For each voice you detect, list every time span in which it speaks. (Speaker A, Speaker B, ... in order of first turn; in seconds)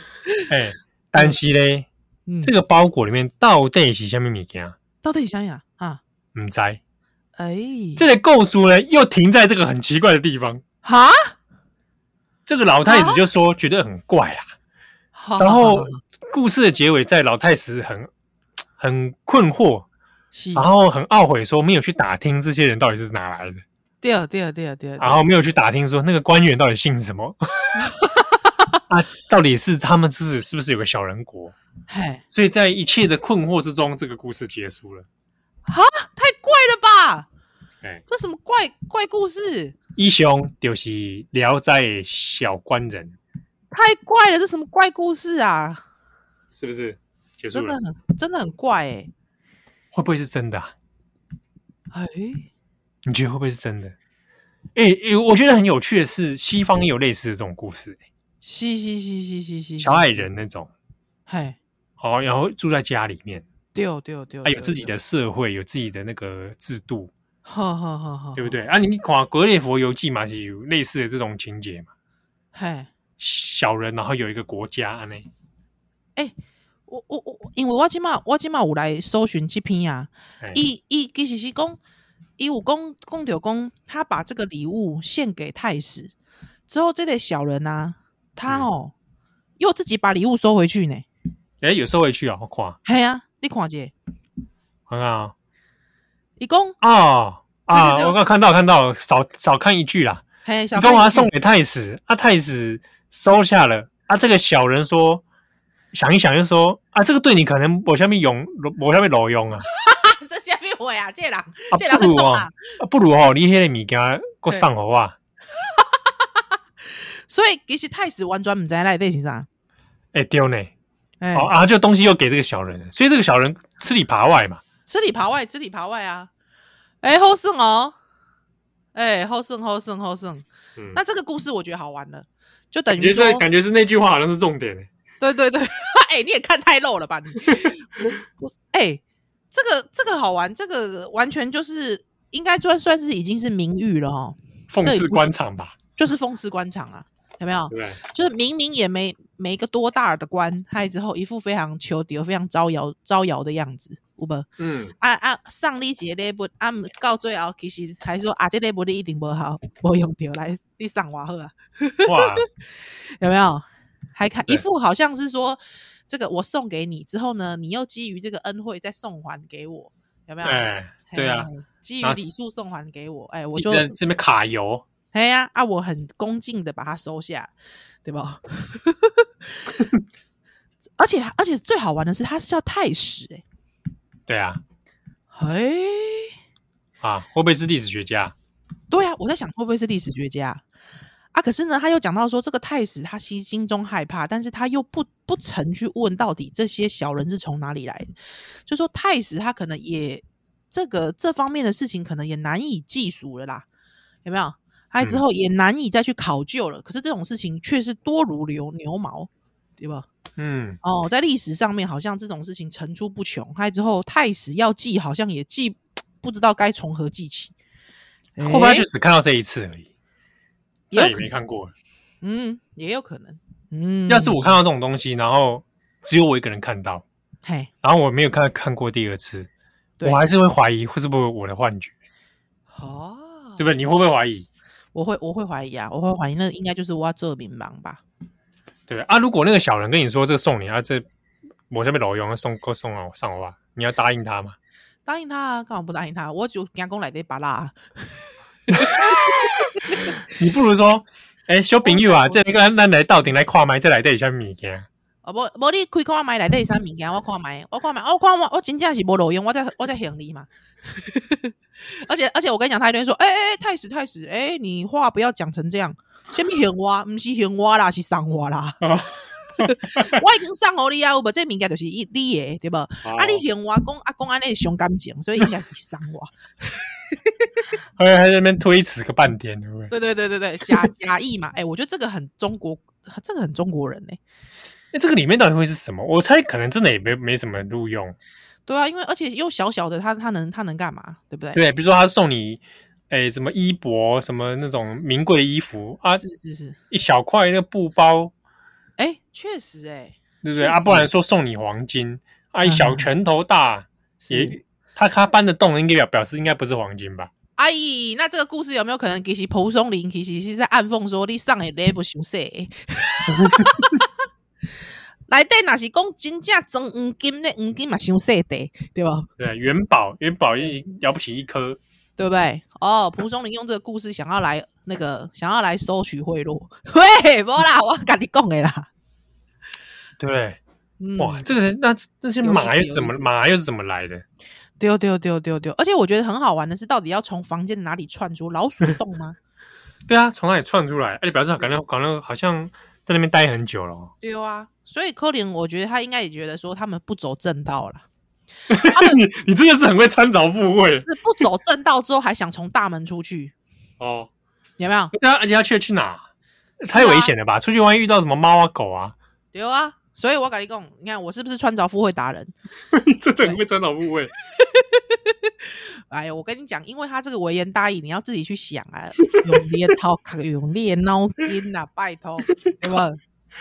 Speaker A: 0.5-1.9, 2.4-4.8, 6.3-6.8, 8.0-10.6, 12.4-14.5, 15.4-18.1, 18.8-19.9, 20.5-23.6, 25.0-27.8, 28.9-31.6, 32.3-35.0, 40.0-43.2, 46.5-47.8, 49.9-50.7, 53.0-53.9, 54.7-58.0, 59.8-60.7, 62.0-63.5, 64.4-67.1, 68.3-71.9, 73.2-75.3, 91.6-92.8, 94.9-95.3, 96.8-100.2, 100.8-105.2, 105.9-109.7, 111.7-115.2, 120.1-120.7, 121.3-124.6, 132.9-134.9, 137.5-138.1, 144.7-145.8, 147.7-148.0, 154.6-154.9, 162.0-162.4, 164.3-164.6, 170.4-171.5, 173.5-174.8, 184.3-184.6, 187.0-188.3, 210.4-210.8, 218.4-219.9, 220.9-221.7, 224.1-227.0, 227.8-229.5, 230.0-231.9, 233.6-234.5, 238.9-241.1, 241.7-244.6, 248.7-254.9, 268.8-270.2, 273.0-273.4, 278.0-279.9, 284.9-288.1, 291.5-296.2, 296.9-298.3, 300.4-307.3, 313.4-313.7, 319.4-321.8, 330.2-330.6, 331.2-334.2, 340.1-344.1, 348.7-351.1, 354.0-354.3, 355.1-356.2, 356.8-359.1, 362.9-364.3, 369.2-369.6, 372.6-373.0
Speaker B: 2.3-2.5, 5.0-6.0, 7.4-8.0, 10.8-11.3, 12.8-13.2, 15.1-16.0, 20.3-20.7, 24.0-25.2, 27.8-28.8, 31.9-32.2, 35.7-37.3, 38.1-39.7, 43.7-45.8, 47.5-49.1, 51.9-52.5, 58.4-60.2, 61.3-61.6, 63.7-64.9, 67.4-68.5, 72.5-72.9, 76.9-81.8, 82.4-86.1, 86.7-88.9, 89.6-91.0, 92.8-93.9, 96.4-96.8, 97.7-98.2, 100.4-101.3, 109.7-112.6, 115.6-116.0, 117.3-119.5, 121.2-121.5, 124.9-126.3, 127.0-127.9, 128.9-133.4, 135.2-137.9, 138.4-145.3, 145.9-162.4, 163.2-173.9, 175.1-177.5, 178.0-179.8, 181.0-183.4, 185.3-186.3, 188.9-190.6, 191.3-198.1, 198.7-203.7, 204.2-210.1, 210.8-217.5, 218.3-218.8, 220.9-221.2, 222.2-224.6, 227.4-227.7, 230.0-230.3, 232.7-233.6, 234.9-238.0, 245.1-248.1, 248.7-250.2, 251.8-252.4, 255.2-268.8, 269.6-277.7, 279.9-284.2, 288.7-291.6, 296.1-296.8, 299.0-301.1, 302.6-303.1, 304.2-304.6, 307.6-314.1, 315.3-319.3, 322.2-328.9, 331.0-331.5, 332.4-333.3, 334.8-339.4, 344.2-348.0, 348.7-349.2, 351.0-353.5, 354.8-355.1, 356.9-357.3, 359.5-362.5, 364.6-373.2